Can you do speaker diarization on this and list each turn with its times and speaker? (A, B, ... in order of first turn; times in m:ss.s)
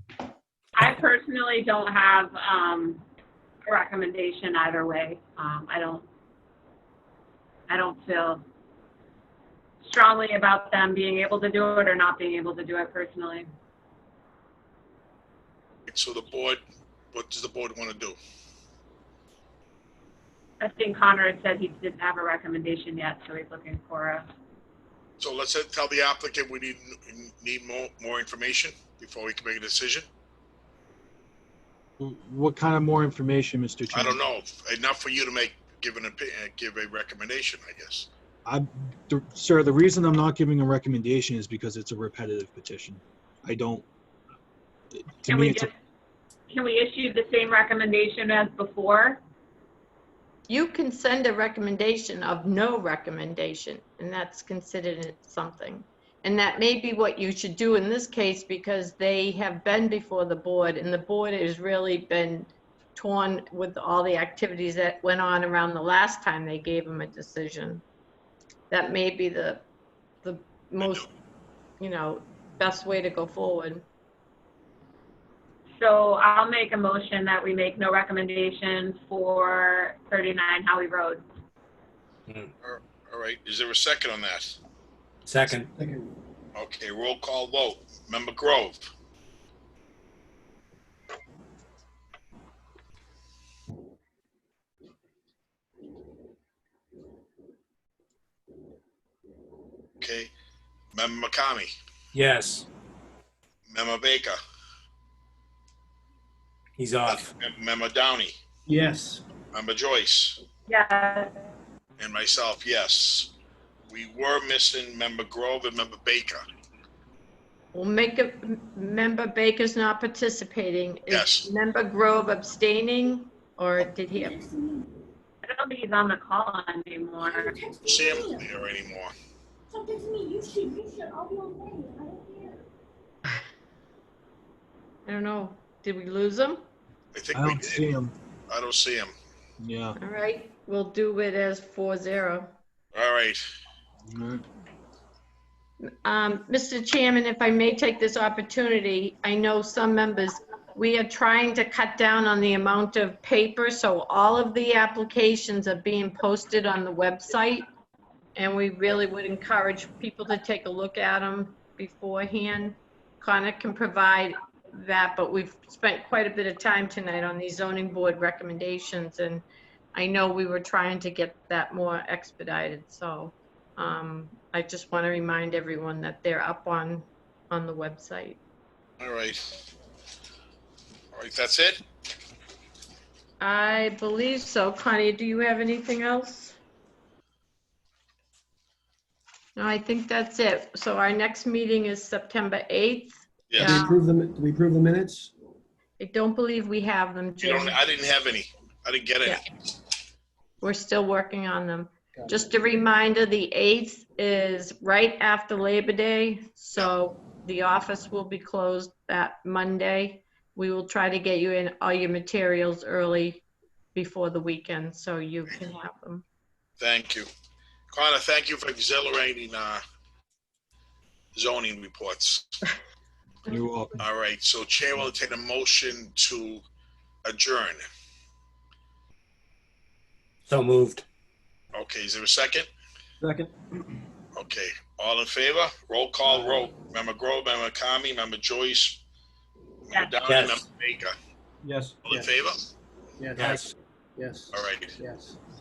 0:00.8-0:03.0 A
0:03.7-0:06.0 A
0:07.7-0:08.4 A
0:09.8-0:13.5 A
0:15.9-0:16.6 B
0:17.1-0:18.2 B
0:20.6-0:24.3 A
0:25.2-0:30.1 B
0:32.0-0:34.2 C
0:33.9-0:38.1 B
0:38.4-0:43.8 C
0:45.2-0:45.7 C
0:45.2-0:45.7 A
0:46.5-0:49.2 A
0:50.5-1:07.8 D
1:08.7-1:09.6 D
1:10.2-1:11.1 D
1:11.8-1:13.8 D
1:15.8-1:21.2 A
1:22.6-1:24.6 B
1:25.2-1:25.7 E
1:25.8-1:26.1 F
1:26.5-1:28.8 B
1:40.0-1:40.3 B
1:40.9-1:41.7 B
1:42.1-1:42.7 E
1:43.7-1:44.4 B
1:46.8-1:47.3 E
1:47.0-1:48.3 B
1:48.7-1:49.2 F
1:49.5-1:50.4 B
1:50.7-1:51.3 A
1:52.0-1:53.3 B
1:53.9-1:56.4 B
1:57.7-2:04.5 D
2:01.1-2:01.5 B
2:04.2-2:04.9 G
2:05.4-2:07.6 A
2:07.4-2:08.5 G
2:07.8-2:09.1 B
2:09.7-2:12.6 G
2:15.0-2:16.6 D
2:17.1-2:17.9 B
2:17.3-2:18.1 C
2:18.5-2:19.1 B
2:19.6-2:20.0 C
2:20.0-2:22.5 D
2:22.9-2:23.4 B
2:24.1-2:24.4 C
2:25.8-2:37.6 D
2:38.4-2:58.4 D
2:59.0-2:59.4 B
3:01.1-3:01.8 B
3:03.4-3:06.6 D
3:09.6-3:14.0 D
3:13.5-3:13.8 B
3:13.6-3:15.3 F
3:16.0-3:17.8 D
3:17.4-3:19.4 B
3:20.6-3:36.2 D
3:36.8-3:37.3 B
3:37.9-3:39.8 B
3:41.3-3:42.5 B
3:43.5-3:44.0 C
3:44.0-3:46.6 B
3:47.2-3:47.8 B
3:50.4-3:51.0 E
3:51.7-3:52.7 B
3:53.2-3:53.5 F
3:54.3-3:59.0 B
3:56.3-3:56.6 F
3:59.9-4:01.1 B
3:59.9-4:00.2 A
4:00.2-4:00.6 E
4:01.6-4:02.0 C
4:02.0-4:02.6 B
4:03.2-4:05.4 F
4:03.4-4:03.7 E
4:04.5-4:04.9 B